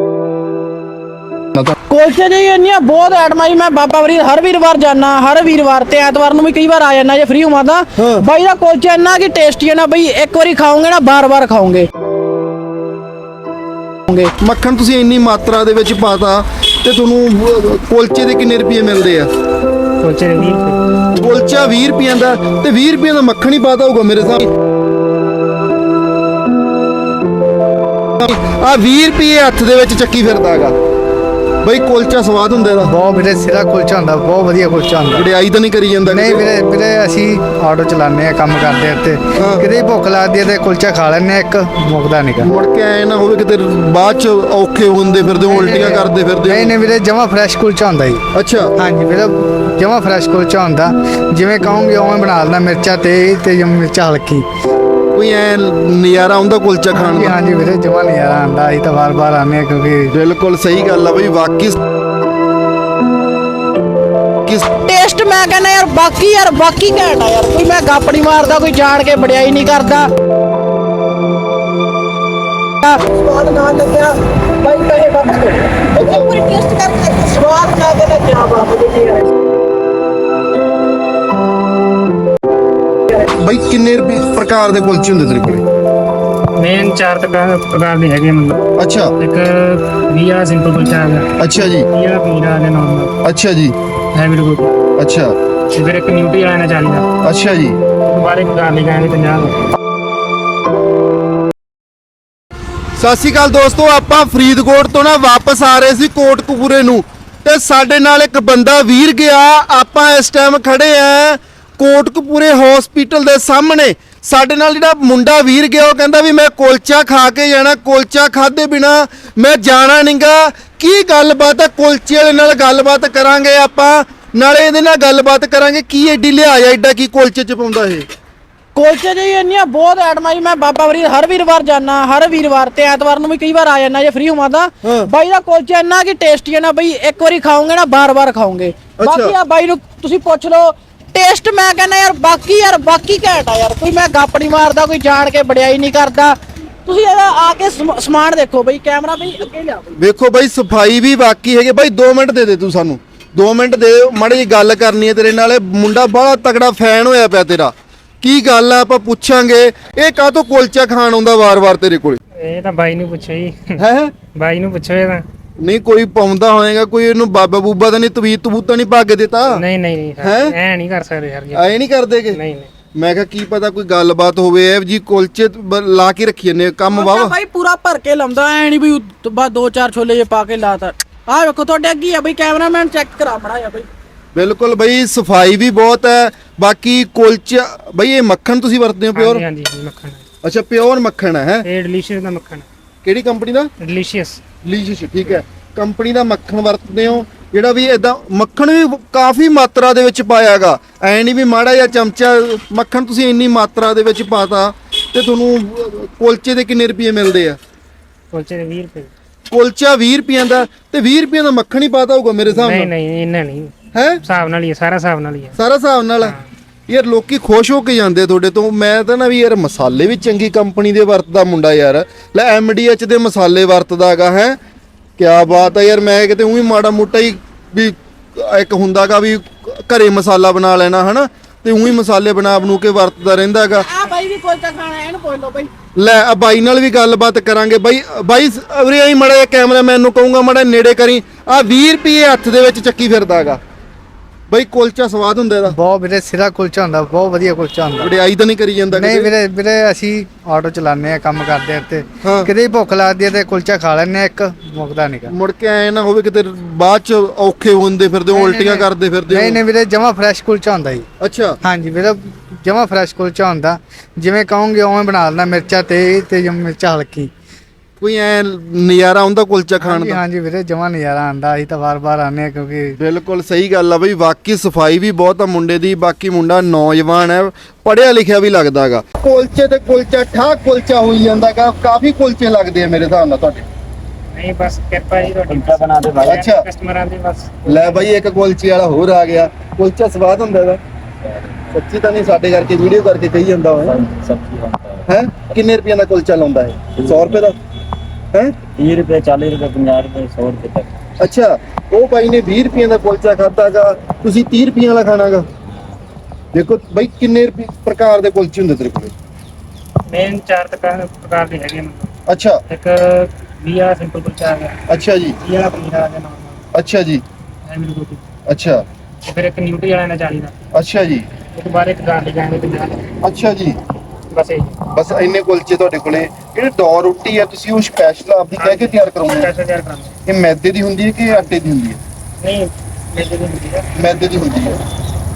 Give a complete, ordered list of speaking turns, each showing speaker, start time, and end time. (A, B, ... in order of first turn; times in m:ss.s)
0:01.9-0:11.9 A
0:08.0-0:08.3 B
0:14.4-0:19.3 B
0:20.0-0:20.8 C
0:21.1-0:24.5 B
0:28.2-0:30.7 B
0:31.6-0:32.9 B
0:32.8-0:35.2 D
0:35.1-0:36.4 B
0:36.0-0:42.5 D
0:39.4-0:39.6 B
0:42.4-0:46.7 B
0:45.4-0:48.2 D
0:48.3-0:48.7 B
0:48.8-0:54.4 D
0:55.1-0:57.4 B
0:56.9-1:00.1 D
1:00.1-1:01.8 B
1:04.8-1:10.1 A
1:12.8-1:19.3 A
1:23.3-1:25.6 B
1:26.6-1:28.6 C
1:28.8-1:29.1 B
1:29.2-1:31.3 C
1:31.4-1:31.9 B
1:31.9-1:33.1 C
1:33.2-1:33.7 B
1:34.1-1:34.7 C
1:35.0-1:35.3 B
1:35.7-1:37.1 C
1:37.2-1:37.8 B
1:38.0-1:39.6 C
1:43.0-2:08.1 B
2:08.7-2:30.0 A
2:14.8-2:15.1 B
2:19.0-2:19.3 B
2:30.0-2:42.2 B
2:42.4-2:43.8 C
2:43.8-2:44.1 B
2:44.3-2:45.2 C
2:45.6-2:49.6 B
2:49.4-2:52.7 C
2:50.2-2:50.5 B
2:51.5-2:52.4 B
2:52.9-2:57.4 B
2:56.9-3:03.9 A
3:04.3-3:09.4 B
3:09.1-3:10.2 C
3:10.4-3:11.7 B
3:11.6-3:12.6 C
3:13.0-3:13.7 B
3:13.8-3:14.4 C
3:14.6-3:27.6 B
3:28.3-3:29.1 C
3:29.5-3:32.9 B
3:32.4-3:33.7 C
3:33.9-3:34.2 B
3:34.2-3:35.5 C
3:35.6-3:36.4 B
3:36.2-3:36.4 C
3:36.9-3:44.6 B
3:45.2-3:53.9 B
3:53.7-3:55.7 A
3:56.0-4:03.6 B
4:04.5-4:05.8 B
4:05.7-4:08.1 D
4:08.0-4:09.3 B
4:08.9-4:15.3 D
4:12.2-4:12.5 B
4:15.3-4:19.6 B
4:18.3-4:21.0 D
4:21.2-4:21.6 B
4:21.6-4:27.3 D
4:28.0-4:30.2 B
4:29.8-4:33.0 D
4:33.0-4:43.7 B
4:44.3-4:48.1 C
4:45.5-4:46.4 E
4:46.2-4:46.6 B
4:47.7-4:50.8 B
4:51.2-4:51.5 E
4:51.7-4:54.0 B
4:53.8-4:55.0 E
4:55.1-4:57.6 B
4:57.0-4:57.3 E
4:58.7-5:00.9 E
5:01.2-5:05.4 B
5:06.5-5:09.1 B
5:10.1-5:12.1 C
5:12.3-5:12.6 B
5:12.7-5:14.7 C
5:14.9-5:15.4 B
5:15.4-5:16.6 C
5:16.7-5:17.2 B
5:17.6-5:18.2 C
5:18.5-5:18.8 B
5:19.2-5:20.5 C
5:20.7-5:21.3 B
5:21.5-5:23.0 C
5:23.2-5:23.8 B
5:24.3-5:24.8 C
5:24.9-5:29.5 B
5:28.6-5:30.1 C
5:30.3-5:32.0 B
5:32.4-5:33.9 C
5:33.9-5:34.8 B